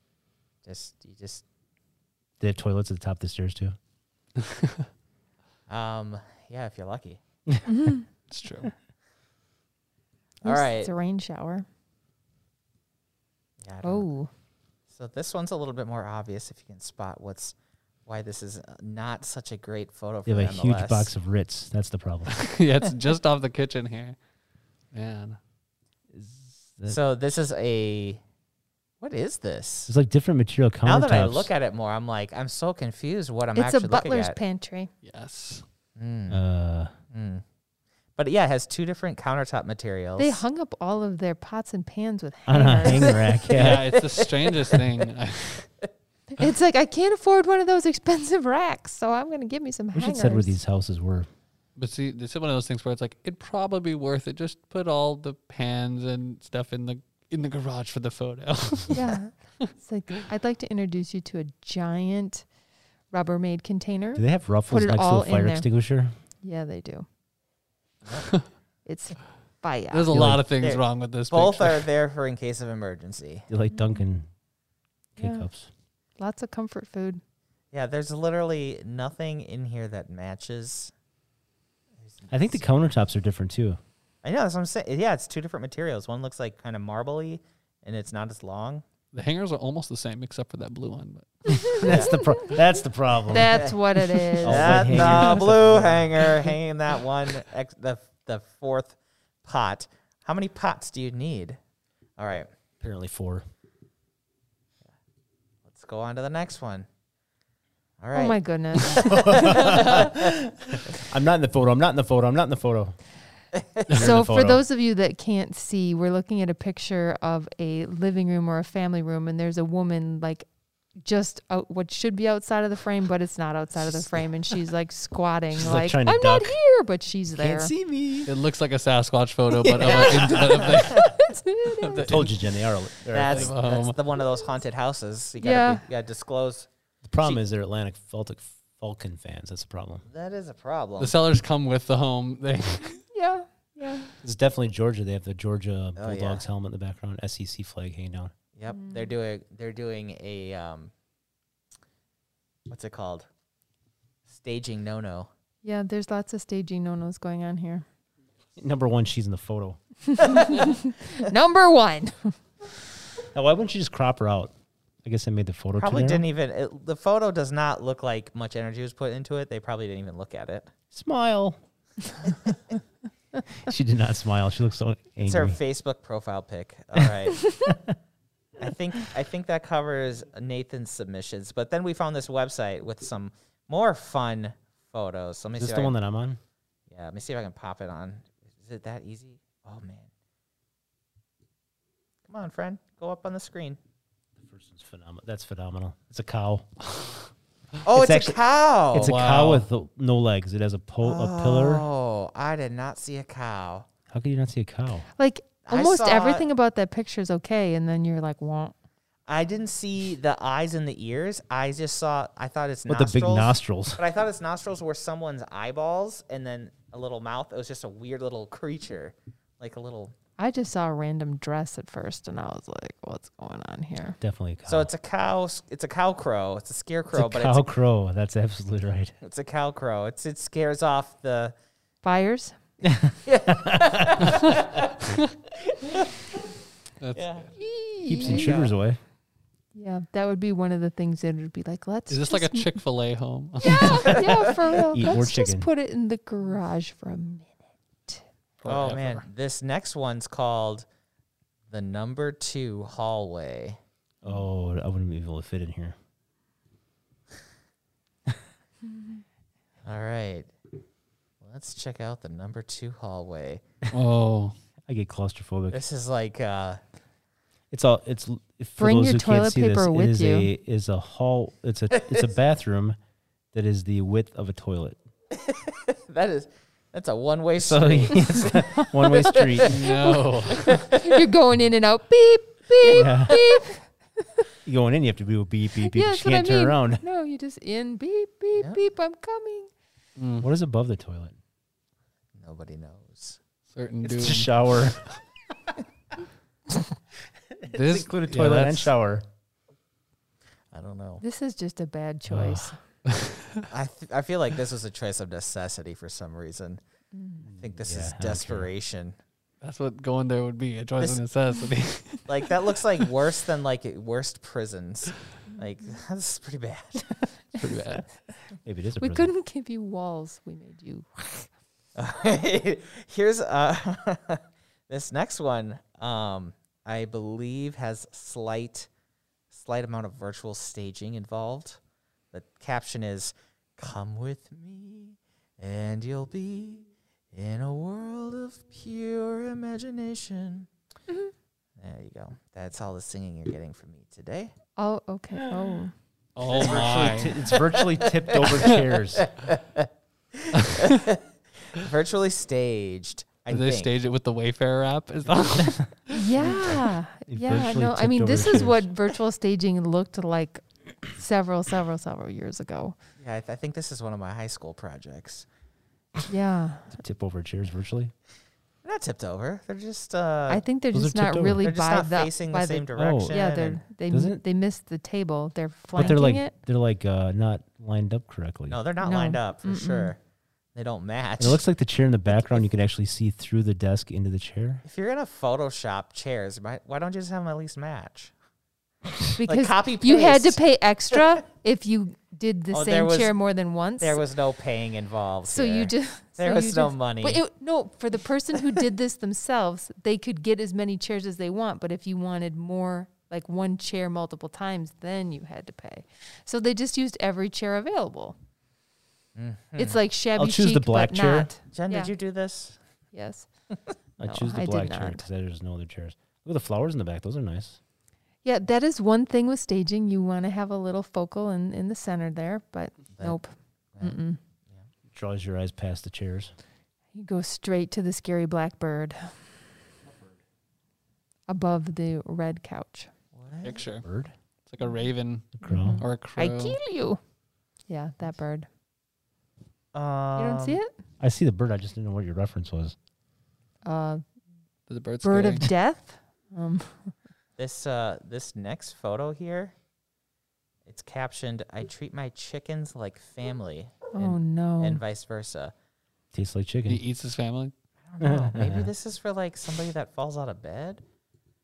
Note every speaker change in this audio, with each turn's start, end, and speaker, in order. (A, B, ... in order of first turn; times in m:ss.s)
0:00.6-0:01.4 A
0:02.4-0:03.8 B
0:04.4-0:04.8 C
0:05.7-0:07.2 A
0:07.7-0:08.1 D
0:08.3-0:08.7 C
0:10.4-0:10.9 A
0:10.4-0:11.7 D
0:13.6-0:14.1 A
0:13.8-0:14.3 D
0:14.9-0:17.6 A
0:18.1-0:21.1 A
0:20.3-0:22.5 B
0:22.3-0:24.2 C
0:24.9-0:25.4 C
0:26.1-0:27.0 B
0:26.9-0:28.2 A
0:29.0-0:29.9 A
0:29.9-0:31.5 B
0:30.8-0:34.4 A
0:33.6-0:34.9 D
0:35.0-0:35.6 C
0:36.0-0:36.4 A
0:36.3-0:36.9 B
0:37.1-0:37.4 A
0:38.2-0:40.4 A
0:40.2-0:43.2 D
0:42.5-0:43.9 B
0:42.9-0:44.8 A
0:43.5-0:45.7 C
0:46.3-0:50.6 D
0:49.9-0:51.3 B
0:51.8-0:59.1 C
0:58.9-1:02.4 D
1:03.1-1:05.7 D
1:04.2-1:06.1 B
1:06.4-1:07.1 D
1:08.0-1:08.3 A
1:08.8-1:10.2 D
1:09.9-1:11.9 C
1:10.1-1:10.4 B
1:10.6-1:13.5 A
1:13.5-1:14.3 B
1:15.2-1:15.5 D
1:15.2-1:15.7 B
1:16.2-1:17.2 D
1:17.7-1:20.9 A
1:22.0-1:22.6 A
1:22.3-1:23.8 B
1:24.2-1:28.8 A
1:29.1-1:31.8 C
1:31.5-1:33.8 B
1:31.6-1:32.5 D
1:31.9-1:32.2 A
1:33.3-1:34.9 D
1:34.4-1:41.6 A
1:34.4-1:36.2 B
1:34.9-1:35.5 C
1:42.2-1:42.5 A
1:42.8-1:43.4 B
1:45.7-1:46.9 A
1:48.0-1:50.3 A
1:48.1-1:49.6 D
1:48.9-1:53.0 B
1:53.9-1:54.6 B
1:53.9-2:00.5 D
2:01.0-2:07.7 D
2:05.5-2:06.6 B
2:07.3-2:08.3 B
2:08.3-2:11.2 C
2:09.6-2:11.0 B
2:10.8-2:12.2 D
2:11.8-2:12.4 C
2:12.0-2:13.5 B
2:13.1-2:16.7 A
2:13.2-2:14.0 C
2:15.4-2:15.8 D
2:17.0-2:20.0 B
2:20.1-2:21.1 A
2:21.0-2:23.0 C
2:23.1-2:24.1 D
2:24.2-2:28.3 B
2:26.0-2:26.4 A
2:28.6-2:30.9 A
2:28.7-2:29.0 D
2:32.7-2:33.3 A
2:34.3-2:35.3 A
2:35.6-2:37.8 D
2:38.6-2:39.8 B
2:40.1-2:42.4 D
2:43.3-2:44.5 B
2:45.0-2:46.2 B
2:45.8-2:50.7 A
2:50.9-2:51.6 B
2:53.6-2:55.6 B
2:55.2-2:57.6 A
2:57.6-2:58.0 B
2:58.6-3:05.9 A
3:05.6-3:06.4 B
3:06.9-3:10.1 A
3:12.3-3:13.8 A
3:14.4-3:16.7 B
3:17.8-3:19.2 A
3:17.9-3:18.4 B
3:18.9-3:21.9 B
3:18.9-3:19.6 C
3:21.0-3:23.9 A
3:24.1-3:25.1 B
3:25.2-3:28.8 D
3:25.7-3:26.5 A
3:29.3-3:40.1 A
3:32.9-3:34.0 B
3:40.4-3:44.2 D
3:44.2-3:44.9 B
3:44.7-3:47.7 A
3:47.1-3:49.1 B
3:49.2-3:51.6 A
3:52.0-3:52.6 D
3:52.8-3:54.3 B
3:53.3-3:55.1 A
3:55.8-3:56.3 A
3:57.0-3:57.4 C
3:57.2-3:57.5 A
3:57.6-3:58.5 D
3:58.1-3:59.0 B
3:58.2-3:58.7 A
3:59.8-4:02.7 D
4:02.1-4:04.2 C
4:03.6-4:08.2 D
4:04.9-4:05.7 B
4:08.6-4:09.2 C
4:08.6-4:10.9 A
4:11.7-4:13.8 A
4:14.2-4:16.0 B
4:19.0-4:19.2 D
4:19.8-4:20.5 A
4:21.4-4:23.6 A
4:23.9-4:24.6 C
4:24.9-4:25.8 B
4:25.7-4:26.8 A
4:27.7-4:33.0 B
4:28.8-4:30.5 D
4:31.9-4:32.3 A
4:33.5-4:35.0 B
4:35.3-4:39.8 A
4:37.6-4:39.8 B
4:39.6-4:40.8 C
4:39.8-4:43.8 D
4:40.6-4:41.2 A
4:42.8-4:43.6 A
4:42.9-4:43.4 B
4:44.6-4:47.0 B
4:45.8-4:49.7 D
4:50.2-4:50.5 C
4:50.4-4:51.4 B
4:52.4-4:53.4 A
4:53.7-4:55.2 C
4:54.0-4:55.0 B
4:57.7-4:58.9 C
4:57.8-4:59.2 B
5:00.7-5:01.2 A
5:01.2-5:02.8 D
5:02.3-5:02.7 B
5:03.1-5:03.6 C
5:03.7-5:06.8 A
5:07.1-5:07.5 D
5:07.5-5:08.7 B
5:07.5-5:09.2 A
5:09.6-5:12.3 C
5:12.3-5:17.3 A
5:17.6-5:18.0 C
5:18.6-5:19.3 B
5:19.0-5:21.5 D
5:22.0-5:28.9 A
5:29.5-5:31.8 A
5:32.3-5:40.7 A
5:41.8-5:44.5 A
5:44.8-5:45.9 D
5:46.4-5:47.4 C
5:46.5-5:53.9 A
5:46.5-5:49.3 B
5:50.6-5:51.0 C
5:53.5-5:56.2 C
5:56.1-6:03.0 D
5:56.4-5:58.9 B
6:03.2-6:05.5 A
6:06.3-6:07.0 D
6:07.0-6:08.1 B
6:08.8-6:10.6 A
6:10.5-6:16.5 D
6:10.9-6:11.7 B
6:11.6-6:13.8 A
6:13.0-6:13.4 B
6:14.1-6:14.4 B
6:16.0-6:18.8 B
6:18.7-6:20.2 A
6:19.0-6:20.1 D
6:20.7-6:21.6 A
6:21.4-6:24.8 B
6:24.8-6:28.3 A
6:29.4-6:34.2 D
6:29.4-6:30.6 A
6:32.7-6:33.4 A
6:34.0-6:37.4 A
6:35.5-6:48.4 D
6:49.4-6:50.0 A
6:49.8-6:52.1 D
6:50.4-6:51.5 B
6:51.7-6:52.8 A
6:53.1-6:53.5 D
6:54.2-6:57.8 B
6:54.2-6:55.3 D
6:58.4-7:04.4 D
7:05.1-7:06.5 B
7:07.1-7:09.4 D
7:11.5-7:13.1 D
7:13.4-7:13.8 A
7:13.6-7:14.0 C
7:14.0-7:14.3 B
7:14.7-7:16.8 C
7:15.6-7:16.0 B
7:15.6-7:17.2 D
7:17.9-7:18.7 D
7:19.9-7:20.8 A
7:20.4-7:20.9 D
7:21.2-7:23.0 B
7:23.8-7:24.2 D
7:24.9-7:25.6 C
7:25.2-7:27.1 D
7:27.6-7:29.7 A
7:30.9-7:35.7 A
7:34.1-7:35.0 D
7:36.3-7:37.0 B
7:36.9-7:37.7 C
7:38.0-7:41.0 A
7:38.2-7:38.9 B